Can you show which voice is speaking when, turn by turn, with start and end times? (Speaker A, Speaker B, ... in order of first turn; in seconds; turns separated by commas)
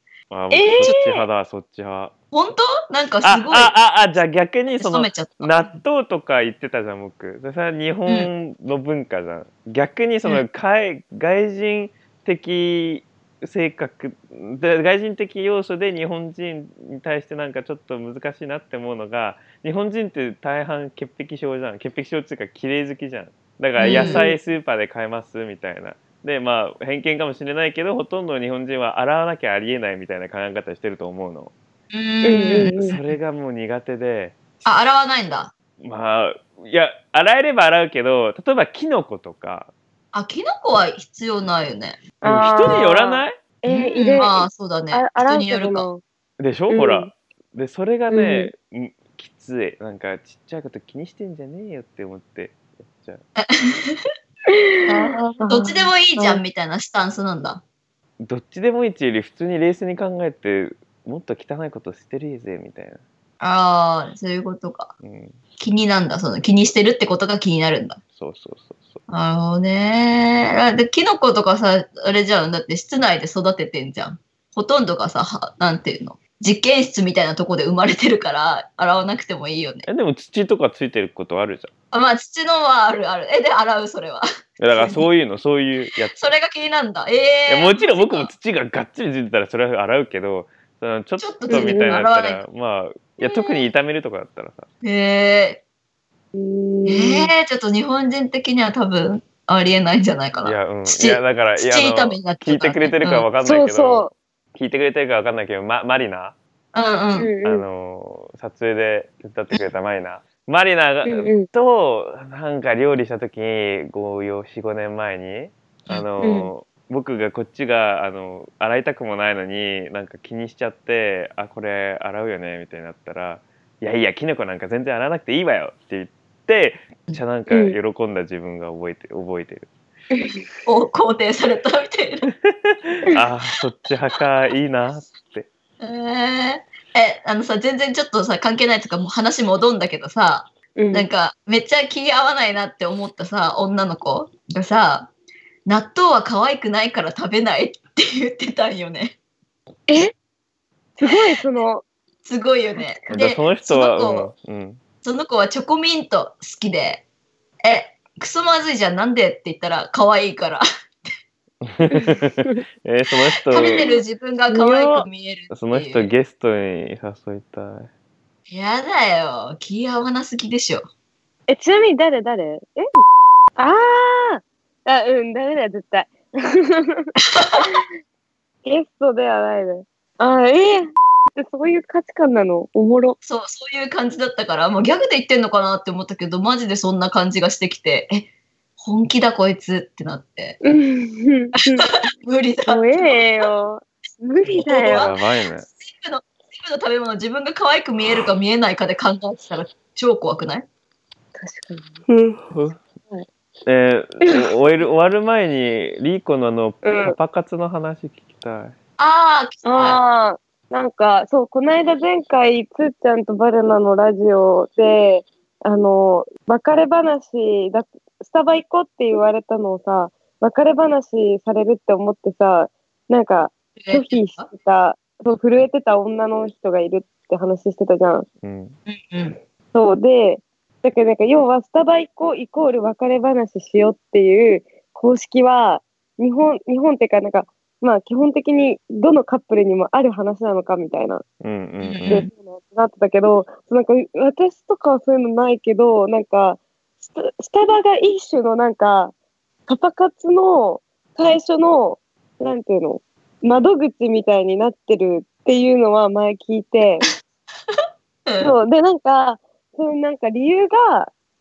Speaker A: 0.3-2.1, Speaker B: 0.5-1.0, Speaker C: 0.8-1.2, Speaker C: 2.3-3.8, Speaker A: 3.2-31.5, Speaker C: 4.8-5.8, Speaker C: 23.8-24.2, Speaker B: 23.8-24.4, Speaker C: 31.9-33.1, Speaker B: 32.2-33.0, Speaker A: 32.7-34.4, Speaker C: 34.6-35.5, Speaker A: 35.8-39.7, Speaker C: 40.1-42.0, Speaker B: 42.2-46.0, Speaker A: 42.2-43.4, Speaker C: 43.7-45.9, Speaker A: 46.4-53.2, Speaker B: 46.7-47.1, Speaker B: 48.1-48.5, Speaker C: 53.4-54.0, Speaker B: 54.5-56.4, Speaker C: 54.8-57.6, Speaker A: 58.2-63.0, Speaker C: 63.4-64.9, Speaker A: 65.0-65.4, Speaker C: 65.6-68.0, Speaker A: 68.1-69.0, Speaker C: 69.1-79.8, Speaker A: 79.8-81.7, Speaker C: 81.9-85.0, Speaker A: 84.6-86.2, Speaker C: 86.1-88.3, Speaker A: 87.5-94.7, Speaker C: 91.2-92.4, Speaker B: 91.5-92.0, Speaker C: 93.2-93.7, Speaker C: 94.8-95.6, Speaker B: 96.3-97.3, Speaker C: 96.8-103.2, Speaker A: 100.4-106.3, Speaker B: 103.4-104.1, Speaker C: 106.7-107.3, Speaker B: 107.2-107.6, Speaker A: 107.4-129.7, Speaker B: 111.0-111.5, Speaker B: 116.2-116.5, Speaker B: 127.5-127.8, Speaker B: 130.2-130.4, Speaker C: 130.7-132.2, Speaker A: 132.3-135.4, Speaker C: 135.8-145.1, Speaker B: 140.8-141.1, Speaker C: 145.7-149.1, Speaker B: 149.9-150.1, Speaker B: 151.0-151.8, Speaker C: 152.2-154.3, Speaker A: 153.1-154.8, Speaker C: 155.0-157.0, Speaker C: 157.6-160.6, Speaker A: 161.6-163.7, Speaker B: 161.9-162.6, Speaker C: 163.5-166.1, Speaker B: 163.5-163.8, Speaker B: 164.5-165.1, Speaker A: 165.5-167.9, Speaker C: 168.5-170.9, Speaker B: 171.5-172.9, Speaker B: 173.6-177.8, Speaker B: 178.6-183.2, Speaker C: 183.2-190.6, Speaker B: 190.6-191.8, Speaker C: 192.0-193.5, Speaker B: 192.7-195.1, Speaker C: 194.4-195.2, Speaker A: 194.6-195.7, Speaker C: 195.8-200.7, Speaker B: 201.4-202.0, Speaker A: 202.1-202.8, Speaker A: 203.7-208.7, Speaker B: 206.8-207.2, Speaker C: 209.0-210.0, Speaker B: 209.6-228.2, Speaker C: 223.8-224.5, Speaker A: 228.4-228.8, Speaker C: 228.9-229.4, Speaker B: 229.7-241.2, Speaker A: 241.4-242.3, Speaker C: 241.8-242.2, Speaker B: 242.1-249.1, Speaker B: 249.7-257.0, Speaker C: 257.7-258.5, Speaker B: 258.4-261.1